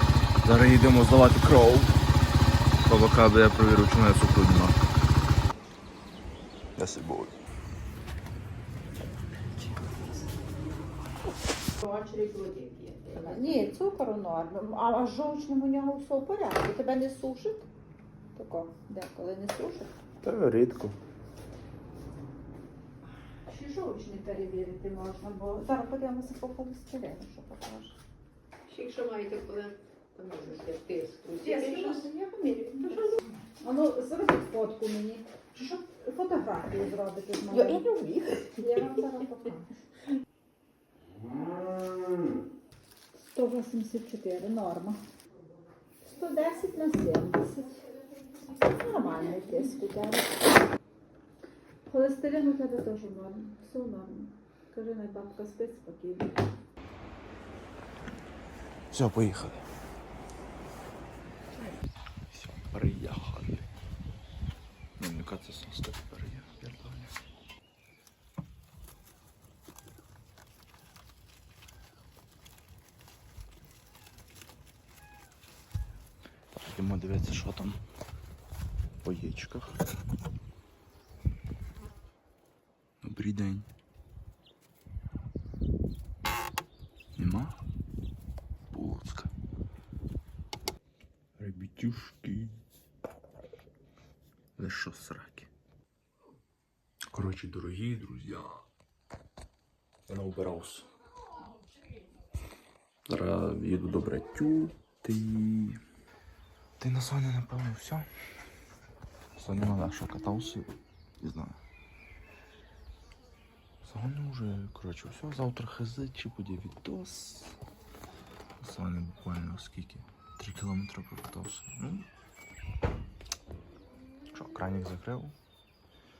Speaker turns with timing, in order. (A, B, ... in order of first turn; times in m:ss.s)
0:00.4-0:02.0 A
0:02.8-0:04.8 A
0:06.8-0:07.4 A
0:11.8-0:13.8 B
0:13.2-0:17.7 C
0:18.3-0:19.9 C
0:20.2-0:21.0 A
0:23.5-0:27.9 C
0:28.7-0:32.1 B
0:31.4-0:39.7 C
0:32.9-0:33.2 B
0:37.5-0:37.9 B
0:43.2-0:45.0 C
0:46.0-0:47.8 C
0:48.6-0:50.5 C
0:51.8-0:56.3 C
0:58.9-0:59.6 A
1:02.3-1:03.7 A
1:05.0-1:07.2 A
1:16.6-1:17.8 A
1:19.0-1:19.8 A
1:23.0-1:23.7 A
1:27.2-1:27.6 A
1:28.7-1:29.3 A
1:31.4-1:32.6 A
1:34.6-1:35.5 A
1:37.1-1:38.6 A
1:40.1-1:40.9 A
1:43.1-1:45.8 A
1:46.8-1:48.1 A
1:49.4-1:51.6 A
1:53.8-1:57.6 A
1:58.6-2:02.1 A
2:04.3-2:05.3 A